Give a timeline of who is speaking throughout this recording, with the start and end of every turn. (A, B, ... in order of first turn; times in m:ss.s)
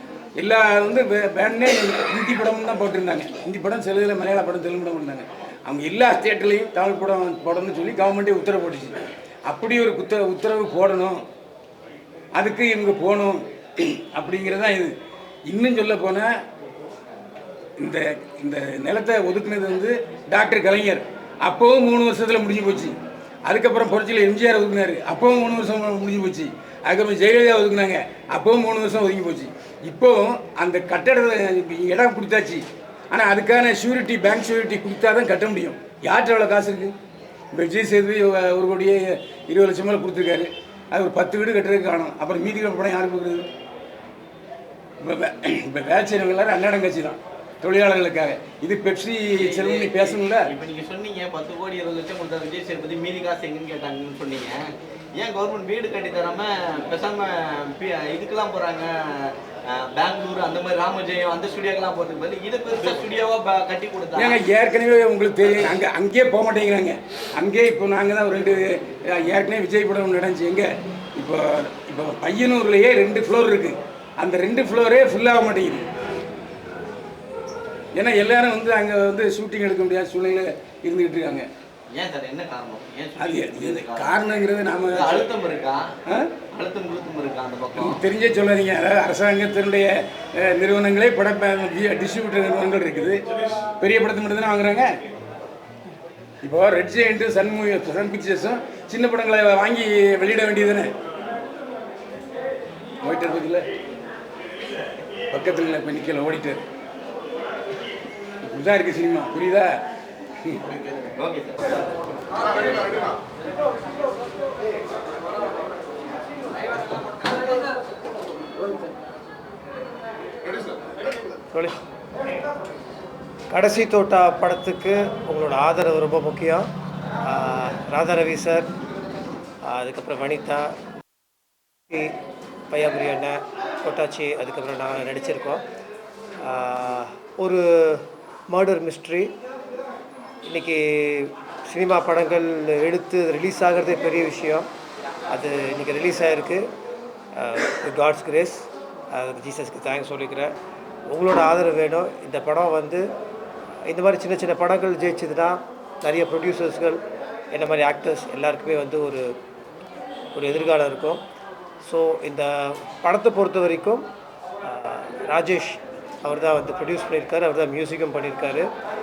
0:00.4-0:11.2 A
0:12.4-0:14.9 A
0:15.5-0:16.3 A
0:17.8-0:22.9 A
0:23.5-0:36.9 A
0:37.5-0:43.4 A
0:45.0-0:50.5 A
0:49.4-0:54.6 B
0:55.2-1:04.4 B
1:04.2-1:15.8 A
1:18.0-1:21.5 A
1:21.9-1:24.1 B
1:23.2-1:25.3 A
1:24.9-1:25.8 B
1:26.5-1:28.0 B
1:27.8-1:33.2 A
1:33.8-1:34.9 A
1:36.4-1:40.9 A
1:43.0-1:43.6 A
1:45.3-1:46.6 A
1:48.4-1:49.7 A
1:51.2-1:51.8 B
2:01.5-2:01.8 C
2:03.5-2:06.6 C
2:07.2-2:08.7 C
2:09.6-2:10.7 C
2:12.7-2:15.6 C
2:16.4-2:19.3 C
2:20.5-2:24.7 C
2:25.3-2:26.6 C
2:27.4-2:30.5 C
2:31.1-2:33.0 C
2:33.9-2:37.0 C
2:37.5-2:39.3 C
2:40.3-2:41.2 C
2:41.8-2:44.0 C
2:44.6-2:48.7 C